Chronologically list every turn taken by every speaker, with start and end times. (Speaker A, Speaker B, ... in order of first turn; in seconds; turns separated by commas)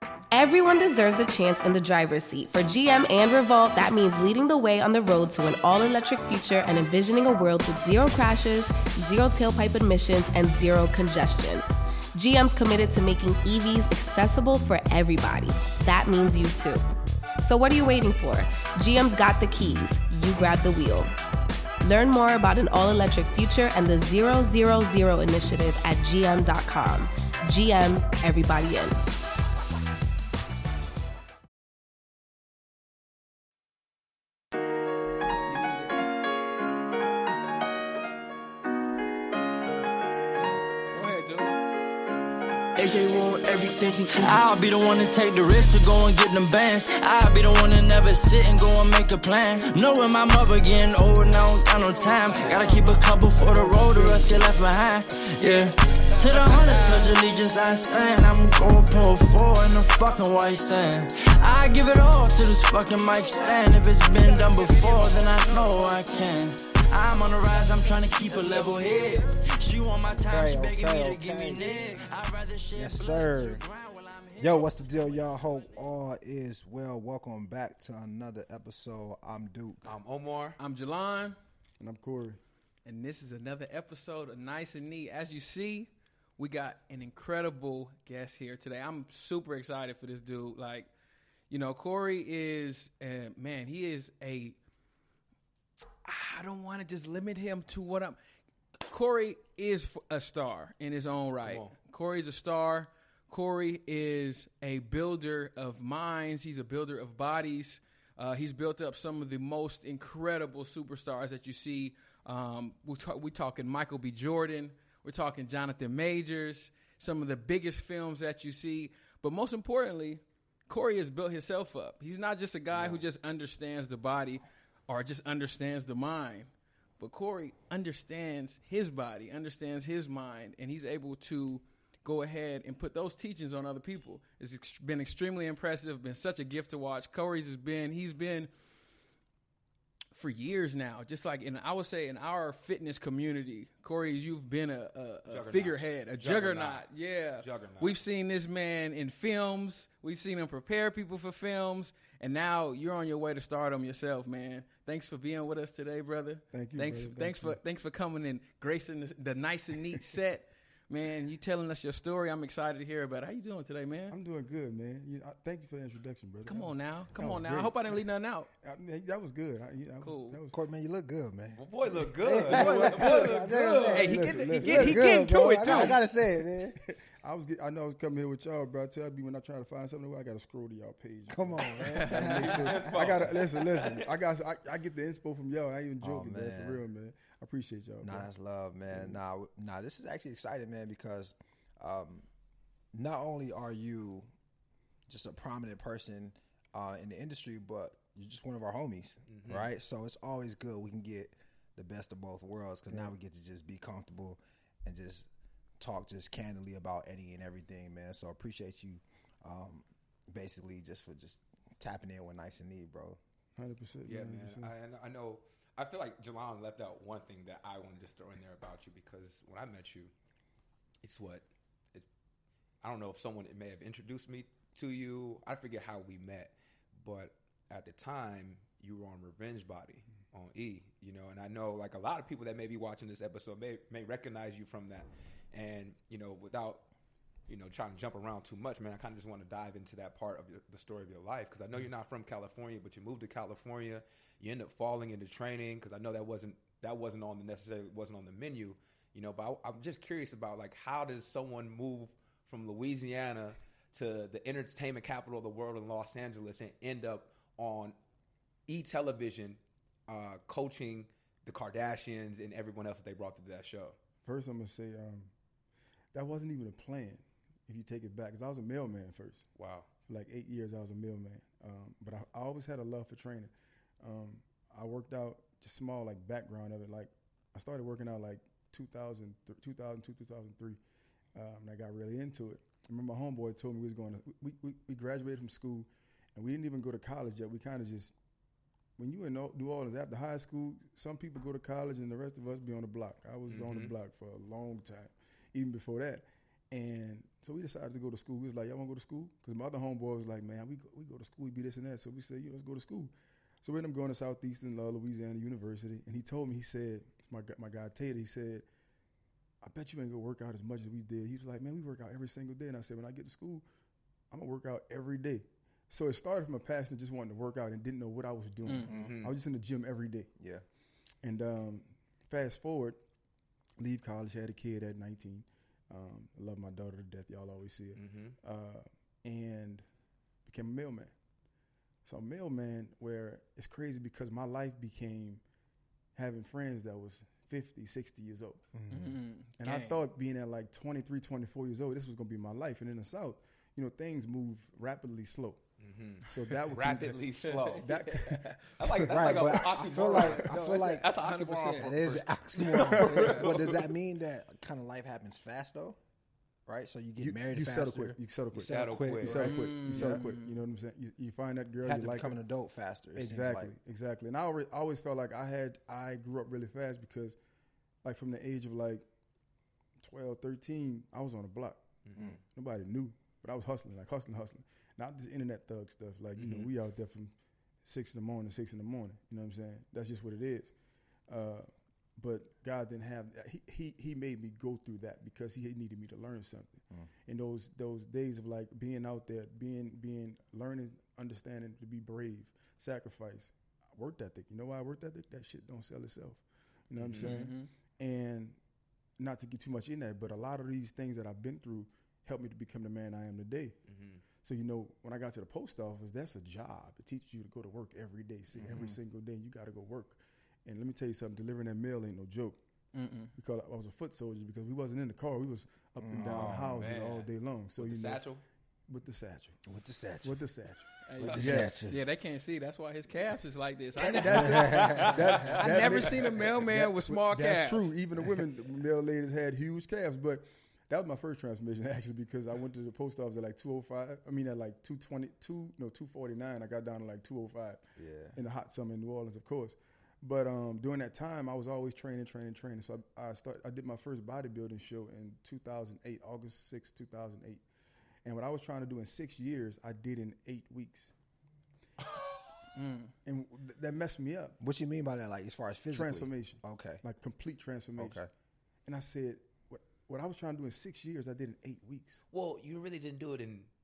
Speaker A: 0.3-11.6, Speaker A: 12.1-16.8, Speaker A: 17.4-21.1, Speaker A: 21.8-29.0, Speaker B: 40.9-41.6, Speaker C: 42.8-75.8, Speaker B: 51.8-54.4, Speaker B: 56.4-57.0, Speaker D: 68.2-69.2, Speaker E: 70.1-71.7, Speaker E: 72.7-73.6, Speaker E: 74.3-79.9, Speaker D: 79.8-80.6, Speaker B: 80.6-81.3, Speaker F: 81.8-82.4, Speaker B: 82.8-90.9, Speaker B: 91.5-94.6, Speaker B: 96.0-98.2, Speaker B: 98.8-138.5, Speaker D: 101.4-101.7, Speaker B: 140.1-164.1, Speaker D: 145.3-146.8, Speaker D: 147.4-148.0, Speaker F: 156.5-157.6, Speaker F: 164.1-168.0, Speaker B: 166.4-168.5, Speaker F: 168.6-170.6, Speaker B: 170.0-170.4, Speaker E: 170.5-176.8, Speaker D: 171.5-176.0, Speaker B: 172.5-175.9, Speaker F: 172.5-173.2, Speaker F: 173.9-188.3, Speaker E: 181.3-183.1, Speaker B: 181.9-182.4, Speaker D: 182.1-184.1, Speaker E: 186.0-186.8, Speaker E: 188.0-192.3, Speaker F: 188.9-189.2, Speaker E: 192.9-194.3, Speaker E: 195.1-213.2, Speaker D: 199.3-199.7, Speaker F: 213.6-214.7, Speaker D: 214.1-220.1, Speaker D: 221.0-222.1, Speaker D: 222.8-236.8, Speaker D: 237.5-257.9, Speaker D: 258.7-263.9, Speaker F: 264.2-265.3, Speaker F: 266.1-269.4, Speaker D: 269.6-269.9, Speaker F: 270.1-280.8, Speaker F: 281.3-288.1, Speaker F: 289.0-308.6, Speaker D: 293.5-293.9, Speaker F: 309.6-313.6, Speaker F: 314.3-320.3, Speaker B: 318.6-318.9, Speaker E: 318.9-319.2, Speaker D: 318.9-319.3, Speaker E: 320.4-320.6, Speaker F: 321.2-323.0, Speaker F: 323.8-329.8, Speaker D: 328.0-328.4, Speaker F: 330.4-331.1, Speaker F: 332.0-335.4, Speaker F: 336.1-338.6, Speaker E: 338.7-339.2, Speaker B: 338.9-340.0, Speaker F: 339.6-345.6, Speaker D: 345.8-347.9, Speaker F: 346.2-349.2, Speaker B: 347.5-348.4, Speaker D: 348.8-353.9, Speaker E: 348.9-351.1, Speaker B: 349.9-351.9, Speaker E: 351.7-356.0, Speaker F: 352.7-353.4, Speaker B: 353.0-353.5, Speaker E: 356.6-360.3, Speaker F: 357.2-362.4, Speaker D: 358.5-359.5, Speaker B: 359.4-360.6, Speaker E: 361.8-363.8, Speaker F: 363.1-367.4, Speaker F: 368.0-369.1, Speaker F: 370.0-371.8, Speaker D: 372.0-372.3, Speaker F: 372.4-380.7, Speaker D: 376.4-376.7, Speaker F: 381.3-398.6, Speaker D: 397.0-397.4, Speaker B: 397.2-397.7, Speaker F: 399.2-403.8, Speaker D: 403.9-404.2, Speaker F: 404.4-412.6, Speaker E: 408.5-409.0, Speaker B: 412.9-413.3, Speaker F: 413.4-418.2, Speaker E: 416.0-416.9, Speaker D: 416.1-418.4, Speaker F: 418.9-419.6, Speaker E: 419.6-420.4, Speaker F: 420.2-421.8, Speaker B: 421.0-427.9, Speaker E: 421.2-422.0, Speaker F: 424.0-437.8, Speaker E: 424.1-425.5, Speaker E: 438.0-438.4, Speaker F: 438.3-447.6, Speaker F: 448.2-451.1, Speaker B: 452.7-453.1, Speaker F: 453.2-454.6, Speaker E: 454.6-457.0, Speaker F: 455.9-458.2, Speaker E: 458.0-458.3, Speaker F: 458.9-462.2, Speaker D: 462.3-463.7